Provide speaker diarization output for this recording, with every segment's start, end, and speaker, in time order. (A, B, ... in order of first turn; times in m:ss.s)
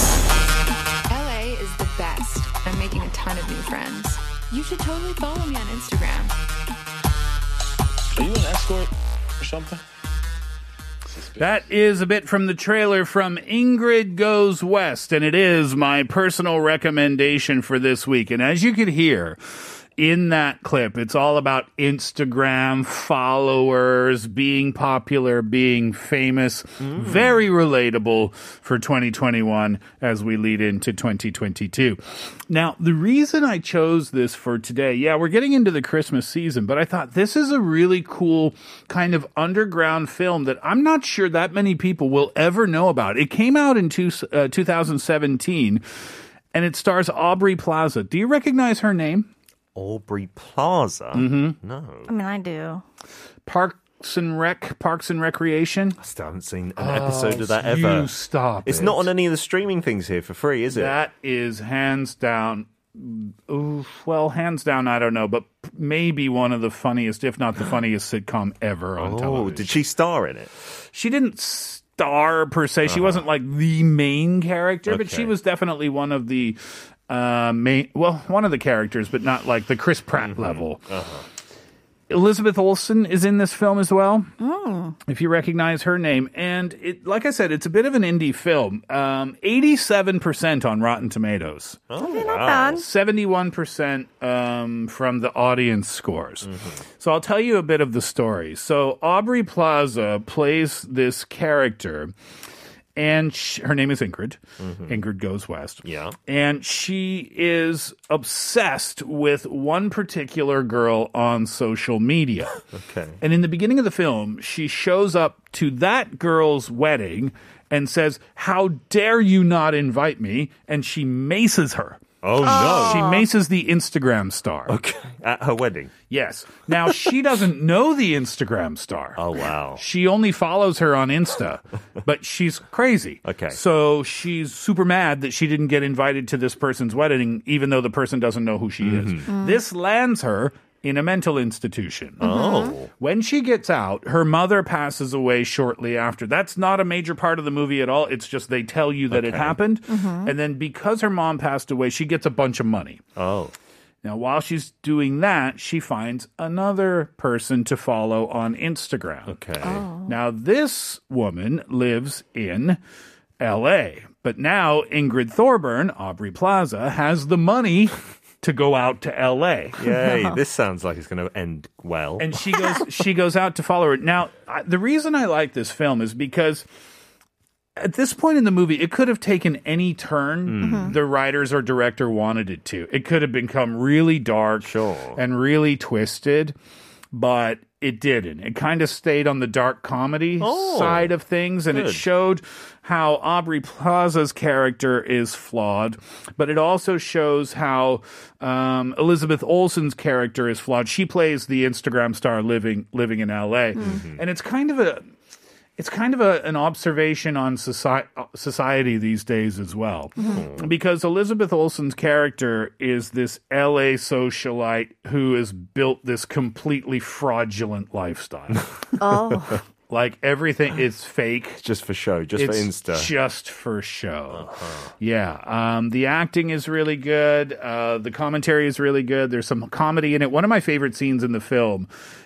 0:01.1-0:06.4 A
0:08.1-0:09.8 B
0:11.1-0:11.5 B
0:11.4-0:45.8 C
0:26.8-0:27.3 D
0:46.5-0:49.3 C
0:49.7-0:52.1 D
0:51.1-0:51.6 C
0:52.1-0:52.8 E
0:53.4-0:56.0 C
0:56.0-0:58.1 D
0:56.8-0:59.1 C
0:58.6-1:00.9 D
1:00.7-1:09.8 C
1:09.0-1:10.5 D
1:10.9-1:20.9 C
1:12.9-1:13.2 D
1:14.9-1:15.3 D
1:20.2-1:21.2 D
1:22.1-1:24.3 C
1:24.4-1:25.0 E
1:25.0-1:31.8 C
1:31.9-1:32.8 D
1:32.0-1:32.8 E
1:32.7-1:42.1 C
1:36.4-1:36.8 D
1:43.0-1:52.6 C
1:44.6-1:45.0 D
1:45.8-1:46.2 D
1:52.7-1:53.2 D
1:53.2-2:04.8 C
2:02.2-2:03.2 D
2:02.4-2:03.2 E
2:04.7-2:05.9 D
2:06.1-2:09.2 C
2:09.2-2:09.8 D
2:09.8-2:22.3 C
2:13.2-2:13.6 D
2:18.8-2:19.3 D
2:19.3-2:19.6 E
2:22.2-2:22.8 E
2:22.2-2:22.9 D
2:22.9-2:33.0 C
2:29.1-2:29.6 D
2:29.9-2:30.3 E
2:33.2-2:33.5 D
2:34.0-2:39.4 C
2:39.3-2:39.8 D
2:39.6-2:40.1 E
2:40.0-2:42.8 C
2:43.4-2:49.9 C
2:49.8-2:52.4 D
2:50.0-2:50.4 E
2:52.2-2:56.7 C
2:57.8-3:06.5 C
3:00.5-3:01.0 D
3:00.6-3:01.0 E
3:04.6-3:05.2 D
3:07.1-3:25.0 C
3:10.4-3:11.1 D
3:11.7-3:12.0 D
3:23.8-3:24.0 E
3:23.8-3:24.2 D
3:25.8-3:38.6 C
3:30.2-3:30.4 E
3:30.2-3:30.7 D
3:39.0-3:39.6 E
3:39.9-3:41.6 C
3:41.6-3:43.1 D
3:42.4-3:51.9 C
3:44.3-3:44.9 D